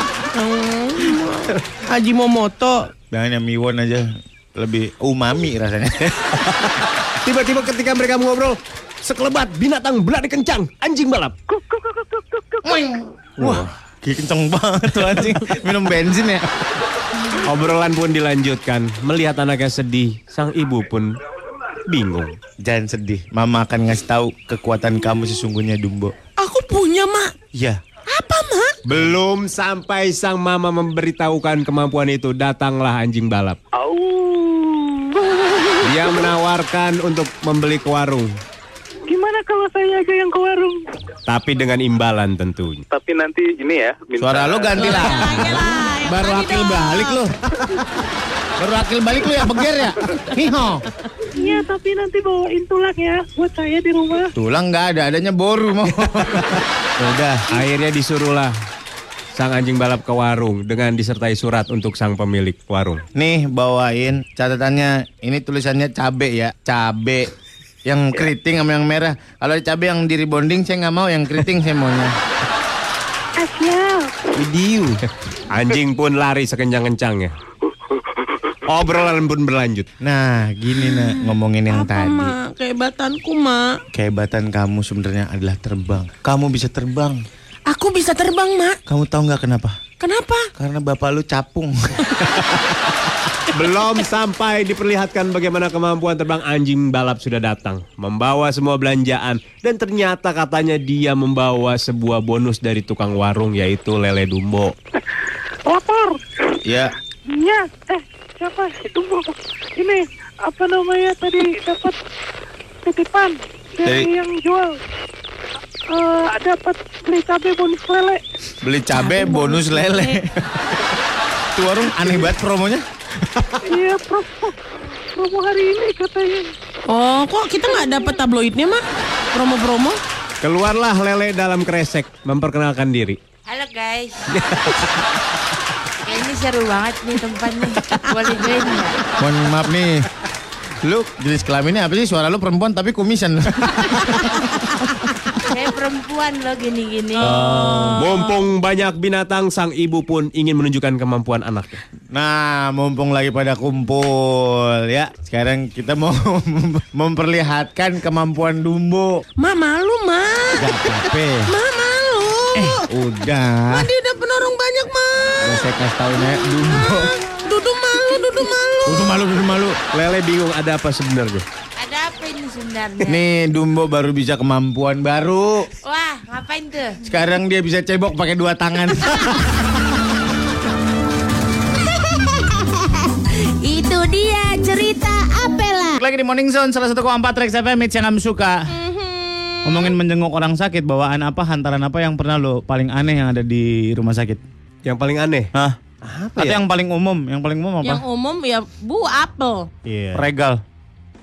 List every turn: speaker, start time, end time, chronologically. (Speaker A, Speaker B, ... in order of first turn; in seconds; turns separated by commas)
Speaker A: 0.3-2.9, Speaker B: 3.1-6.4, Speaker C: 6.4-11.3, Speaker D: 11.5-12.6, Speaker B: 12.6-16.4, Speaker C: 13.4-13.7, Speaker C: 17.4-21.2, Speaker C: 21.8-22.4, Speaker B: 22.6-26.1, Speaker A: 26.4-27.3, Speaker B: 27.5-27.8, Speaker A: 28.1-28.8, Speaker C: 28.8-33.6, Speaker E: 33.8-34.9, Speaker C: 35.8-38.3, Speaker D: 39.1-40.8, Speaker C: 41.2-42.8, Speaker E: 42.9-45.2, Speaker B: 44.2-47.8, Speaker A: 44.8-47.2, Speaker B: 48.6-50.8, Speaker D: 51.3-54.3, Speaker B: 54.3-57.5, Speaker C: 57.5-58.5, Speaker C: 59.3-63.0, Speaker B: 63.1-67.3, Speaker B: 67.8-72.2, Speaker D: 73.4-74.2, Speaker B: 74.3-75.0, Speaker C: 75.5-77.3, Speaker C: 78.7-79.9, Speaker B: 80.0-82.3, Speaker A: 80.8-83.8, Speaker B: 83.9-87.2, Speaker A: 87.7-88.8, Speaker B: 88.9-89.8, Speaker A: 90.0-90.5, Speaker B: 90.5-92.0, Speaker C: 93.5-104.7, Speaker D: 105.7-106.2, Speaker B: 106.6-106.9, Speaker D: 107.3-112.0, Speaker D: 112.8-114.8, Speaker B: 113.8-114.1, Speaker D: 115.9-118.2, Speaker B: 118.6-120.6, Speaker A: 118.9-120.2, Speaker B: 121.5-122.8, Speaker D: 123.6-124.5, Speaker D: 125.1-126.5, Speaker A: 126.9-130.0, Speaker C: 130.4-133.2, Speaker F: 133.5-134.4, Speaker C: 134.3-135.0, Speaker F: 136.0-138.9, Speaker A: 137.9-139.0, Speaker B: 139.2-140.1, Speaker B: 140.8-144.4, Speaker A: 144.1-145.0, Speaker F: 145.4-147.4, Speaker A: 147.2-148.3, Speaker B: 147.2-148.1, Speaker C: 147.9-151.8, Speaker B: 152.1-159.2, Speaker A: 159.4-162.9, Speaker B: 160.6-161.5, Speaker B: 162.5-163.9, Speaker A: 163.7-165.6, Speaker B: 165.4-167.1, Speaker A: 166.4-169.1, Speaker B: 168.8-169.8, Speaker C: 169.9-171.4, Speaker F: 171.8-173.2, Speaker B: 173.1-175.7, Speaker F: 175.8-177.0, Speaker B: 177.0-179.7, Speaker F: 182.0-182.8, Speaker F: 183.6-186.0, Speaker B: 186.0-188.7, Speaker A: 188.7-189.9, Speaker B: 189.6-194.4, Speaker C: 194.8-195.5, Speaker C: 196.0-196.6, Speaker B: 196.4-198.0, Speaker A: 197.8-199.7, Speaker C: 199.8-200.2, Speaker B: 200.1-200.6